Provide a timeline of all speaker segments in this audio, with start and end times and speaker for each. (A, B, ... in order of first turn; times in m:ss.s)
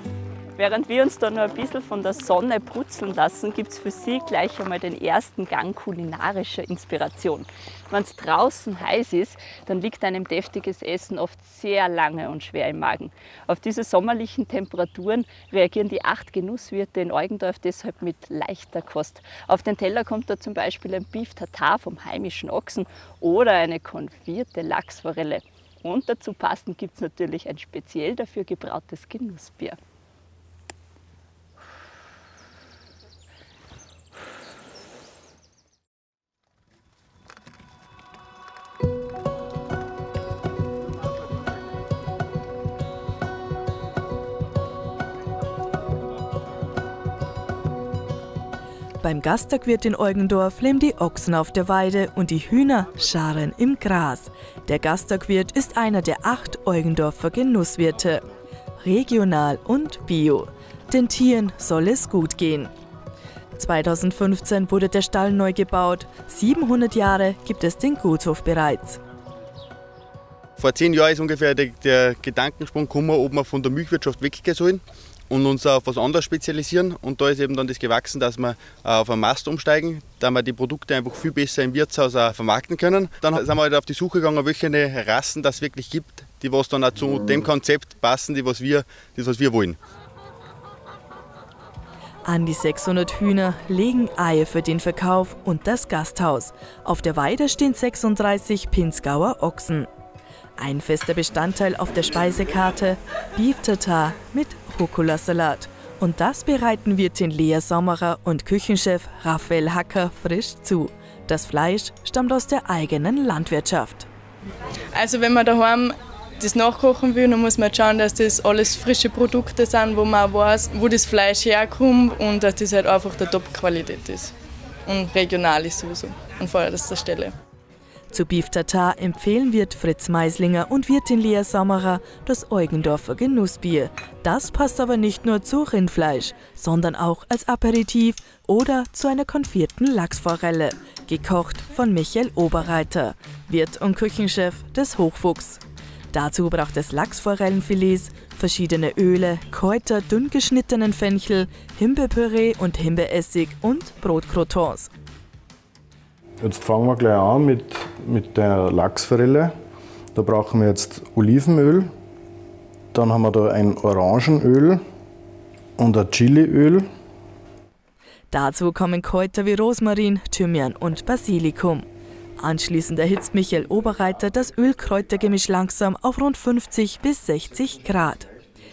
0:00.6-0:29.8 A
0:49.0-0:58.2 B
0:58.8-1:02.7 B
1:03.6-1:09.0 B
1:10.6-1:29.8 C
1:32.2-1:39.9 B
1:40.6-1:54.1 B
1:54.9-2:04.3 D
2:04.9-2:07.3 D
2:08.1-2:25.6 B
2:26.1-2:34.9 B
2:36.4-2:39.5 E
2:40.1-2:41.9 E
2:42.9-2:44.8 E
2:45.8-2:46.8 E
2:48.3-2:51.8 B
2:52.4-2:58.3 B